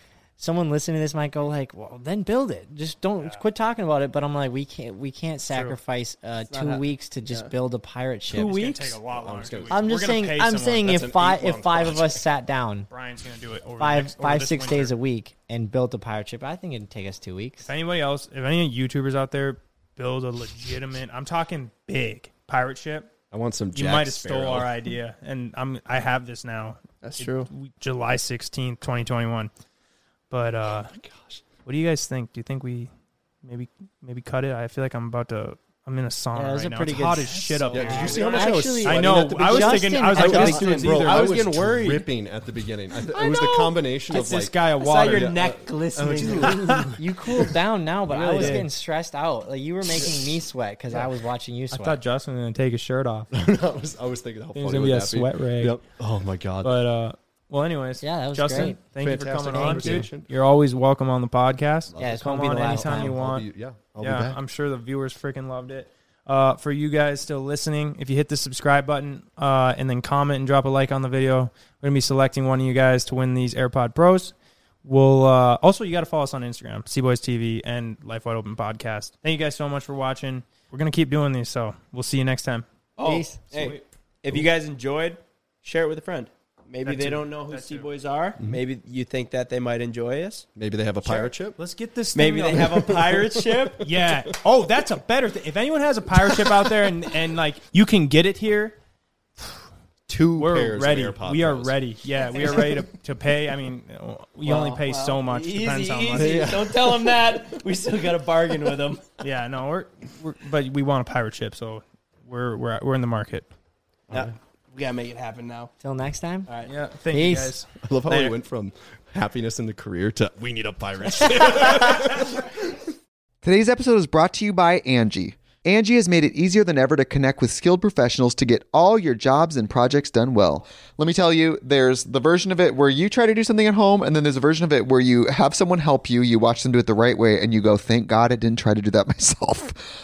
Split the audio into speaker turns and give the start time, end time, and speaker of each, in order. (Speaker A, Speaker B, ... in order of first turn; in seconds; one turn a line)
Speaker A: 0.4-8.9
Speaker B: 5.5-5.8
Speaker C: 6.5-7.5
Speaker B: 8.3-11.1
Speaker D: 9.0-10.2
Speaker A: 9.7-12.9
Speaker D: 10.8-12.2
Speaker B: 12.9-14.9
Speaker A: 13.8-17.7
Speaker B: 17.6-23.2
Speaker D: 23.3-24.7
Speaker B: 23.7-29.5
Speaker C: 27.0-27.5
Speaker B: 30.3-30.9
Speaker D: 30.8-31.4
Speaker B: 31.6-32.9
Speaker B: 33.4-41.4
Speaker A: 36.3-41.2
Speaker C: 37.6-38.8
Speaker D: 37.7-47.0
Speaker C: 41.0-42.0
Speaker C: 43.1-43.7
Speaker B: 44.1-45.3
Speaker C: 44.8-46.7
Speaker B: 46.2-46.9
Speaker A: 46.3-52.0
Speaker B: 48.1-48.7
Speaker D: 49.9-50.4
Speaker B: 51.7-53.3
Speaker D: 53.3-56.8
Speaker B: 54.5-55.8
Speaker B: 56.6-63.5
Speaker A: 58.0-58.8
Speaker D: 58.5-60.3
Speaker A: 59.5-60.1
Speaker D: 61.9-64.4
Speaker A: 62.0-63.2
Speaker B: 64.0-82.7
Speaker C: 83.0-90.5
Speaker A: 83.0-83.6
Speaker B: 83.5-83.8
Speaker B: 86.8-87.9
Speaker D: 90.5-91.6
Speaker B: 91.1-92.9
Speaker C: 92.1-93.8
Speaker D: 92.7-94.4
Speaker B: 93.8-98.8
Speaker D: 96.2-96.9
Speaker D: 100.1-102.7
Speaker B: 100.4-106.5
Speaker C: 104.4-109.0
Speaker D: 106.2-106.8
Speaker B: 109.2-113.5
Speaker C: 114.1-115.7
Speaker A: 115.8-116.5
Speaker C: 116.5-116.7
Speaker B: 116.7-118.3
Speaker A: 117.1-117.6
Speaker D: 117.8-122.8
Speaker E: 123.4-139.8